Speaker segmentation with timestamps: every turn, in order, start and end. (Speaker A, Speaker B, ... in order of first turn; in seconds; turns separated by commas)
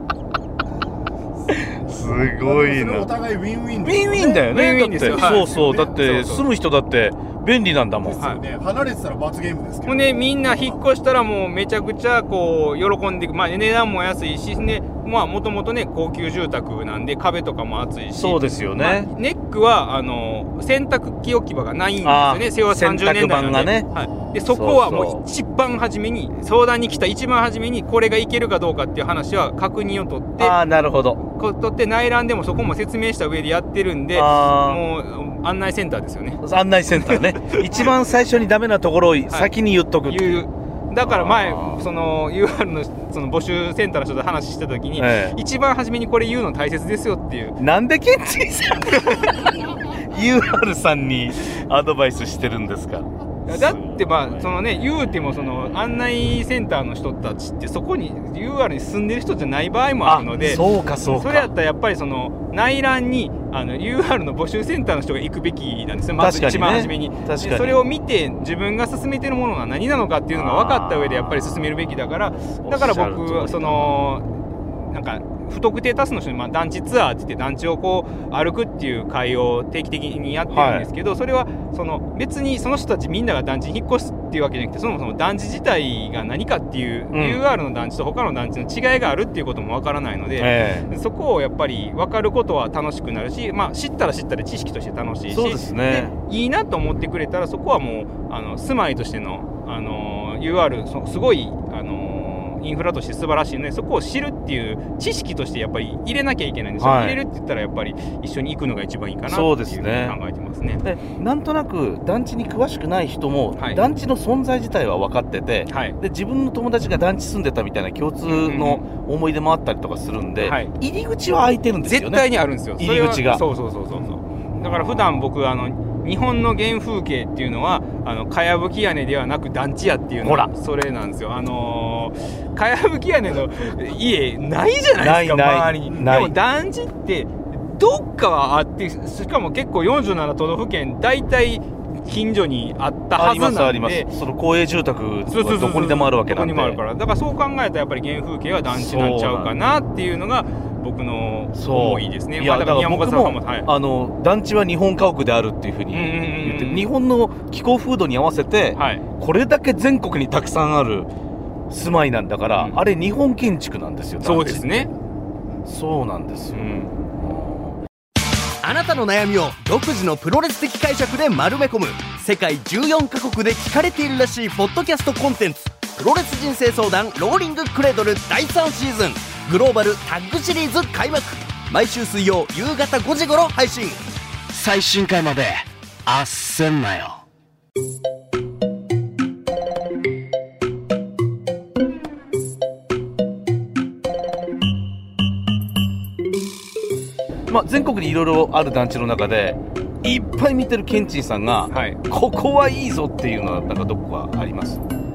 Speaker A: 1.5-3.1, Speaker B: 2.3-4.3, Speaker A: 3.8-8.2, Speaker C: 4.4-6.4, Speaker B: 5.2-5.7, Speaker B: 8.3-10.0, Speaker C: 9.8-30.5, Speaker A: 18.1-19.1, Speaker A: 22.0-25.2, Speaker A: 30.4-31.2, Speaker C: 31.3-36.4, Speaker A: 34.1-34.8, Speaker A: 36.4-40.4, Speaker C: 37.0-37.9, Speaker C: 40.1-47.6, Speaker A: 41.0-41.9, Speaker A: 45.0-45.4, Speaker A: 47.6-54.5, Speaker C: 53.5-74.2, Speaker A: 60.0-61.5, Speaker A: 66.2-67.8, Speaker A: 70.3-74.0, Speaker C: 74.9-110.8, Speaker A: 80.5-80.9, Speaker A: 87.1-87.4, Speaker A: 90.4-90.9, Speaker A: 95.3-96.1, Speaker A: 106.8-107.2, Speaker A: 109.3-110.2, Speaker A: 110.8-122.3, Speaker C: 113.6-113.8, Speaker C: 115.7-116.0, Speaker C: 118.2-118.8, Speaker C: 120.4-120.7, Speaker C: 121.8-144.1, Speaker A: 122.8-123.4, Speaker A: 130.2-130.5, Speaker A: 135.0-136.3, Speaker A: 143.1-146.8, Speaker C: 145.3-153.7, Speaker A: 148.7-149.5, Speaker A: 151.5-161.1, Speaker C: 155.9-156.8, Speaker C: 158.8-159.0, Speaker A: 161.7-164.8, Speaker C: 162.5-162.8, Speaker C: 164.2-164.9, Speaker A: 165.6-167.8, Speaker C: 166.5-166.9, Speaker D: 168.6-184.7, Speaker E: 184.6-187.2, Speaker D: 186.4-187.2, Speaker A: 197.5-204.8, Speaker C: 201.7-202.0